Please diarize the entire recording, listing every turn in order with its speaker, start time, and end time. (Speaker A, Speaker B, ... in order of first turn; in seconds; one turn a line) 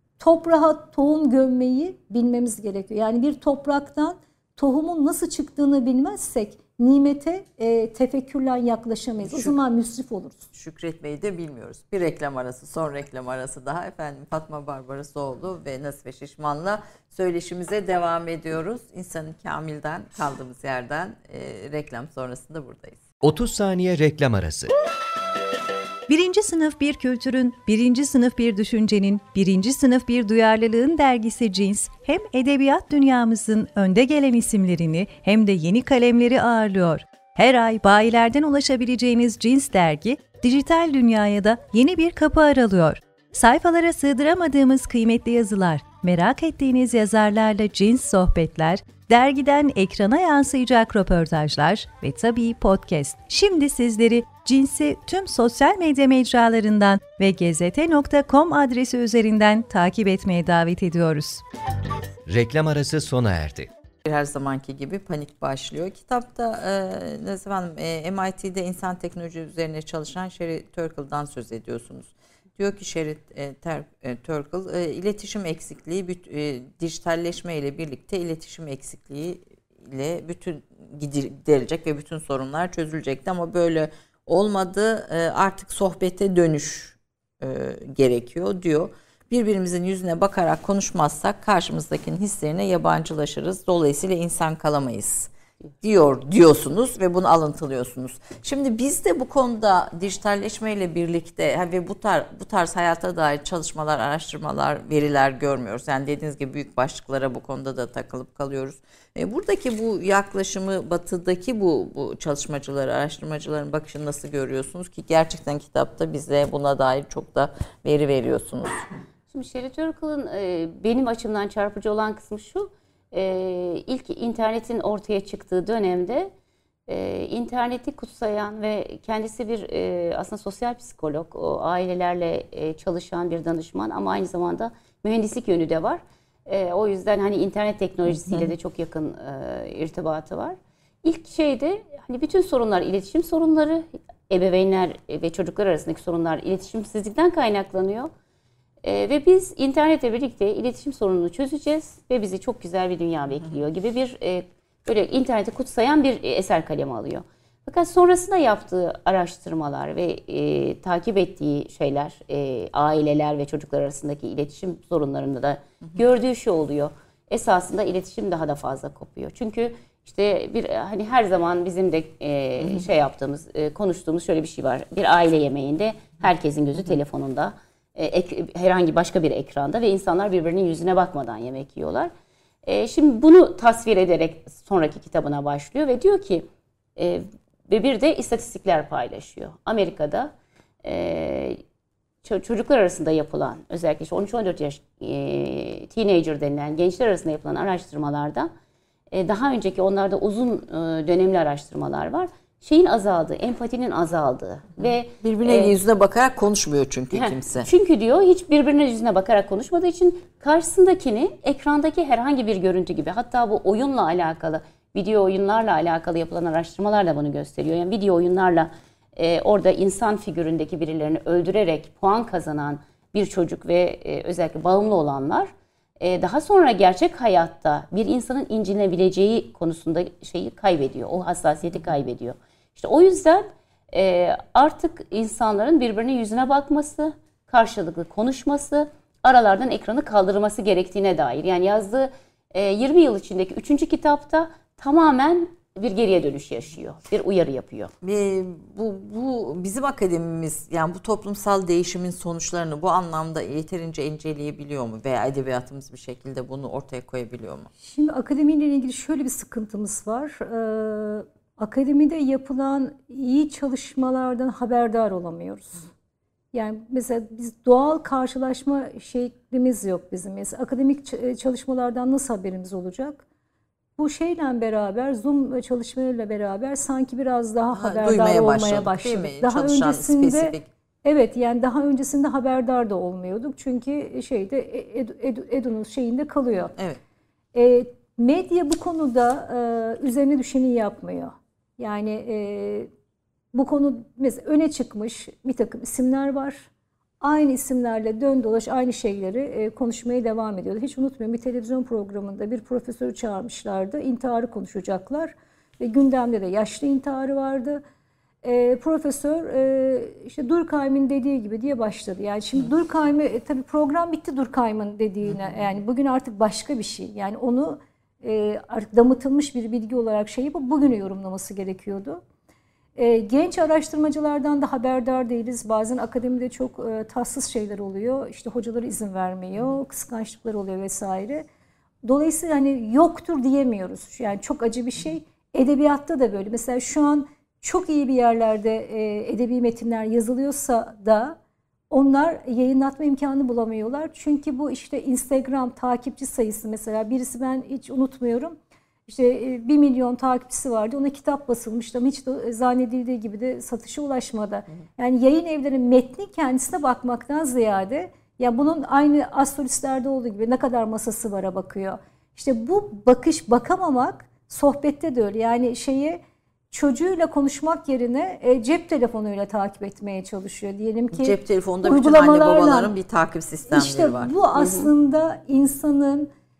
Speaker A: 0.2-10.5
Speaker B: 9.2-9.6
Speaker B: 10.5-23.0
Speaker C: 23.2-24.7
Speaker D: 26.1-61.4
Speaker C: 62.3-63.7
Speaker B: 64.0-95.3
Speaker B: 95.8-118.8
Speaker E: 119.3-126.3
Speaker E: 126.9-148.1
Speaker B: 138.1-138.5
Speaker E: 148.8-182.1
Speaker E: 182.7-186.5
Speaker E: 187.0-190.3
Speaker E: 190.8-191.6
Speaker E: 192.2-198.5
Speaker E: 199.1-205.7
Speaker B: 204.8-207.7
Speaker E: 207.1-247.9
Speaker B: 248.0-257.7
Speaker A: 257.8-265.9
Speaker A: 266.5-273.2
Speaker A: 274.0-286.7
Speaker B: 277.7-280.7
Speaker A: 287.5-292.9
Speaker A: 293.5-296.7
Speaker A: 297.2-307.8
Speaker A: 308.4-322.2
Speaker A: 323.0-331.5
Speaker A: 332.0-341.4
Speaker A: 341.9-348.6
Speaker A: 349.1-366.2
Speaker A: 366.7-372.9
Speaker B: 371.1-374.3
Speaker A: 373.7-376.3
Speaker E: 374.6-374.9